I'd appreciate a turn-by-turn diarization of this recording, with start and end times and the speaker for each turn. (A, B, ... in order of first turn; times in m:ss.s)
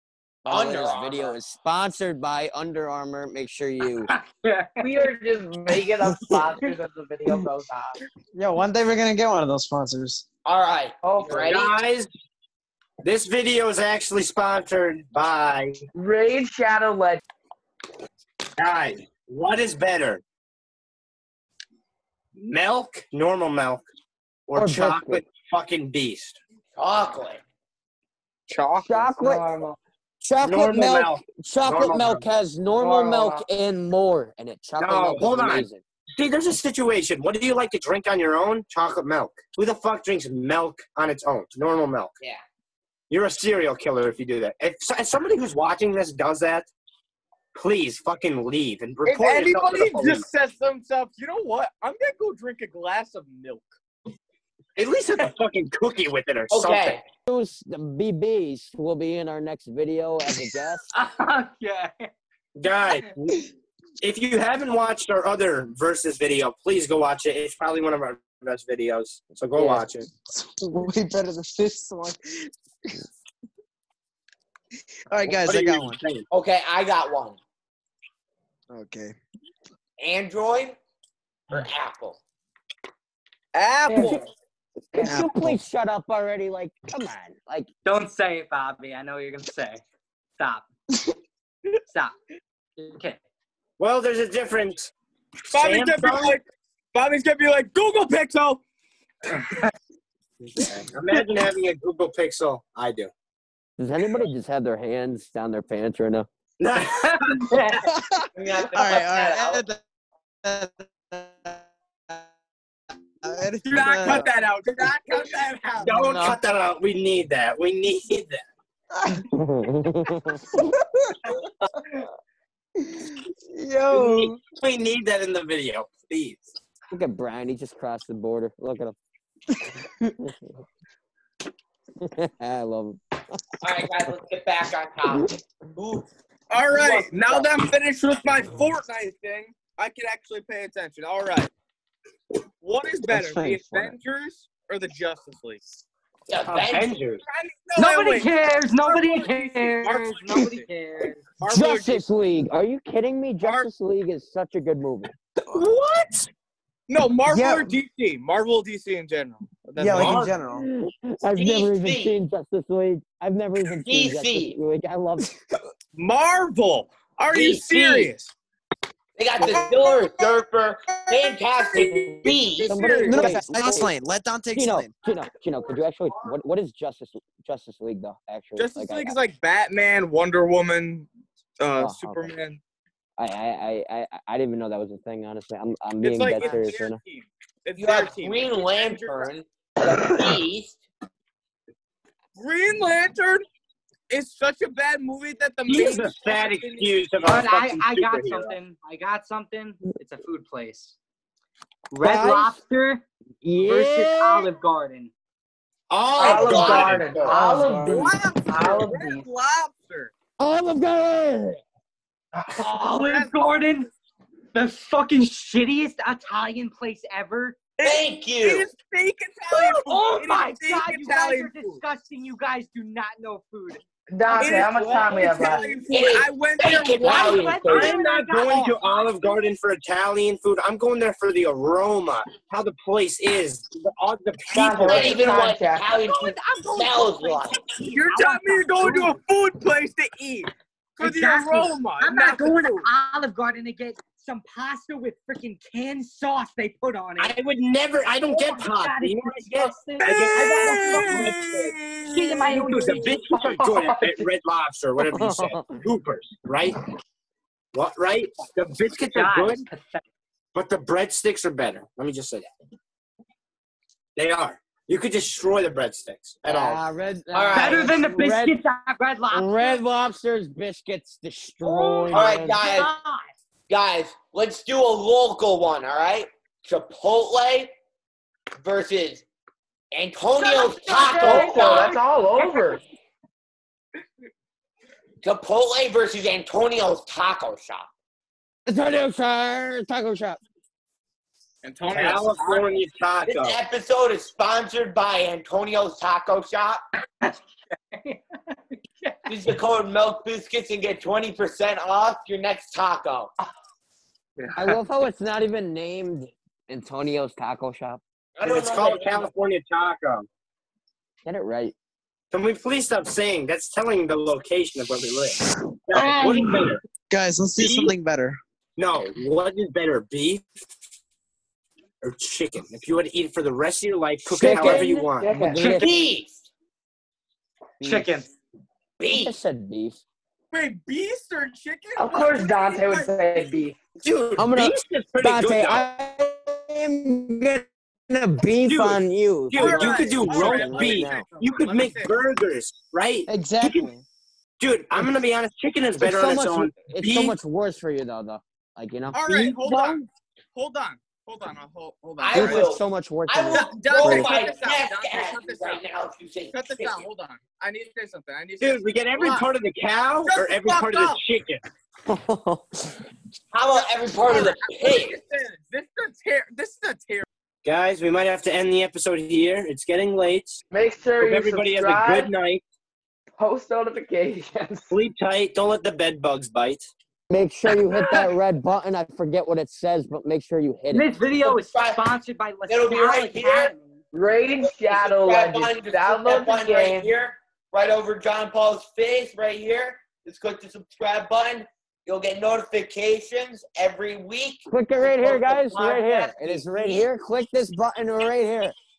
0:00.4-0:04.1 A
0:00.4-0:01.4 B
0:04.1-0:04.8 C
0:04.8-0:08.0 D
0:08.3-0:10.2 E
0:10.4-0:11.7 B
0:11.0-0:11.5 D
0:11.4-0:12.1 F
0:13.0-0:15.9 F
0:15.9-0:17.2 D
0:18.6-0:20.2 F
0:22.4-0:23.8 F
0:24.5-0:26.4 F
0:24.6-0:25.2 A
0:26.8-0:27.4 B
0:28.5-0:29.1 G
0:28.8-0:29.5 A
0:29.2-0:29.8 D
0:30.2-0:35.8 A
0:30.4-0:32.2 F
0:32.7-0:33.4 D
0:34.8-0:42.1 F
0:43.1-0:46.7 F
0:47.5-0:50.2 F
0:49.0-0:53.7 G
0:54.8-0:57.0 F
0:56.5-0:57.1 B
0:57.3-1:00.8 A
1:00.9-1:02.1 C
1:02.6-1:03.5 F
1:04.0-1:10.1 F
1:09.6-1:09.8 A
1:10.2-1:13.0 E
1:15.1-1:16.0 E
1:15.2-1:16.2 F
1:16.3-1:17.4 B
1:18.7-1:19.2 E
1:20.0-1:20.8 B
1:21.5-1:22.2 B
1:23.5-1:24.3 G
1:23.9-1:24.2 D
1:24.0-1:24.2 A
1:24.9-1:25.2 D
1:25.0-1:27.7 A
1:25.0-1:25.6 E
1:27.8-1:29.8 C
1:30.4-1:30.7 C
1:31.9-1:32.1 C
1:32.8-1:33.2 C
1:33.8-1:34.9 F
1:35.5-1:38.6 G
1:35.5-1:36.4 F
1:39.3-1:39.7 C
1:40.5-1:43.1 F
1:43.8-1:46.3 A
1:46.6-1:47.8 F
1:46.8-1:47.8 C
1:47.8-1:49.8 E
1:48.3-1:49.6 B
1:50.4-1:51.6 E
1:53.2-1:54.3 E
1:53.6-1:56.3 G
1:55.8-1:58.4 F
1:59.3-2:00.5 A
2:03.5-2:04.4 E
2:03.9-2:06.5 F
2:06.9-2:09.0 A
2:12.0-2:13.9 A
2:13.6-2:16.1 B
2:16.5-2:21.5 G
2:16.7-2:17.4 B
2:22.6-2:25.6 G
2:23.1-2:23.9 A
2:26.3-2:27.0 B
2:26.5-2:26.8 C
2:26.6-2:27.2 F
2:27.2-2:30.6 G
2:27.8-2:31.3 C
2:31.4-2:32.1 G
2:31.4-2:35.1 A
2:33.4-2:33.7 G
2:36.9-2:40.4 G
2:37.3-2:37.6 E
2:39.8-2:40.7 E
2:39.9-2:40.3 F
2:40.5-2:45.4 A
2:41.3-2:42.2 B
2:43.8-2:44.6 B
2:45.9-2:48.3 G
2:47.3-2:48.1 B
2:49.2-2:53.0 B
2:49.4-2:50.0 G
2:51.1-2:53.4 G
2:52.7-2:53.9 A
2:53.0-2:55.0 E
2:54.5-2:59.2 A
2:58.6-3:01.1 G
3:01.6-3:02.6 G
3:01.8-3:02.3 A
3:03.2-3:07.0 A
3:06.0-3:09.3 G
3:07.8-3:10.8 B
3:12.4-3:13.4 G
3:14.1-3:17.4 G
3:15.6-3:18.6 F
3:17.2-3:20.9 C
3:21.9-3:23.0 C
3:22.0-3:22.5 A
3:23.4-3:24.5 A
3:23.6-3:25.1 C
3:25.9-3:27.3 F
3:26.1-3:27.5 B
3:26.2-3:29.2 D
3:27.3-3:28.1 E
3:27.8-3:30.1 G
3:30.4-3:31.6 A
3:32.5-3:33.9 C
3:32.7-3:33.4 G
3:34.5-3:37.6 C
3:37.8-3:41.8 G
3:37.8-3:38.7 B
3:39.5-3:45.9 C
3:44.1-3:45.7 D
3:44.3-3:47.9 G
3:45.9-3:47.9 B
3:47.0-3:49.4 C
3:47.1-3:47.5 D
3:47.6-3:55.3 F
3:54.5-3:55.8 D
3:54.8-3:57.6 B
3:56.1-3:59.2 C
3:57.8-4:02.8 G
4:01.0-4:07.4 C
4:07.2-4:11.7 F
4:08.3-4:11.2 C
4:09.9-4:11.2 D
4:10.0-4:12.4 G
4:12.1-4:13.2 C
4:12.1-4:14.3 D
4:12.4-4:16.8 F
4:15.0-4:15.8 A
4:17.7-4:19.6 F
4:19.1-4:20.0 C
4:20.5-4:22.5 F
4:24.2-4:26.8 F
4:26.4-4:28.6 A
4:27.3-4:28.0 B
4:27.5-4:29.8 C
4:29.3-4:32.6 A
4:31.6-4:33.3 C
4:32.1-4:32.9 B
4:33.7-4:37.7 B
4:38.6-4:39.2 B
4:39.9-4:42.0 B
4:40.3-4:42.8 C
4:41.2-4:42.8 D
4:45.2-4:47.9 B
4:48.7-4:50.4 A
4:51.6-4:52.8 G
4:51.9-4:53.6 F
4:53.2-4:56.8 B
4:57.9-4:59.3 C
4:59.2-5:03.3 B
5:04.4-5:04.8 C
5:04.5-5:08.0 A
5:08.4-5:09.3 B
5:08.4-5:10.3 F
5:11.2-5:11.7 A
5:12.3-5:16.8 F
5:17.1-5:18.4 E
5:17.6-5:17.9 F
5:18.8-5:20.4 F
5:22.0-5:25.9 F
5:24.3-5:26.1 A
5:24.4-5:25.8 D
5:25.6-5:26.4 B
5:27.8-5:28.1 A
5:27.8-5:28.3 C
5:29.0-5:29.4 B
5:29.1-5:30.0 A
5:30.5-5:33.5 G
5:32.0-5:33.8 D
5:34.0-5:35.8 F
5:34.4-5:41.3 A
5:38.6-5:43.9 F
5:39.5-5:42.1 G
5:43.3-5:44.0 E
5:44.6-5:47.4 F
5:46.0-5:50.0 A
5:49.1-5:52.7 G
5:52.2-5:57.0 B
5:52.3-5:54.4 A
5:53.5-5:55.8 G
5:56.5-5:59.5 G
5:58.6-6:01.6 F
6:00.2-6:01.2 G
6:02.0-6:02.9 A
6:03.5-6:05.2 B
6:03.7-6:07.2 G
6:07.6-6:10.6 F
6:10.7-6:12.3 D
6:11.2-6:12.6 F
6:13.4-6:14.9 D
6:14.9-6:16.9 F
6:17.3-6:21.1 A
6:20.9-6:24.0 C
6:21.4-6:22.0 B
6:22.7-6:23.7 B
6:24.1-6:27.1 D
6:24.6-6:37.1 B
6:34.7-6:38.7 A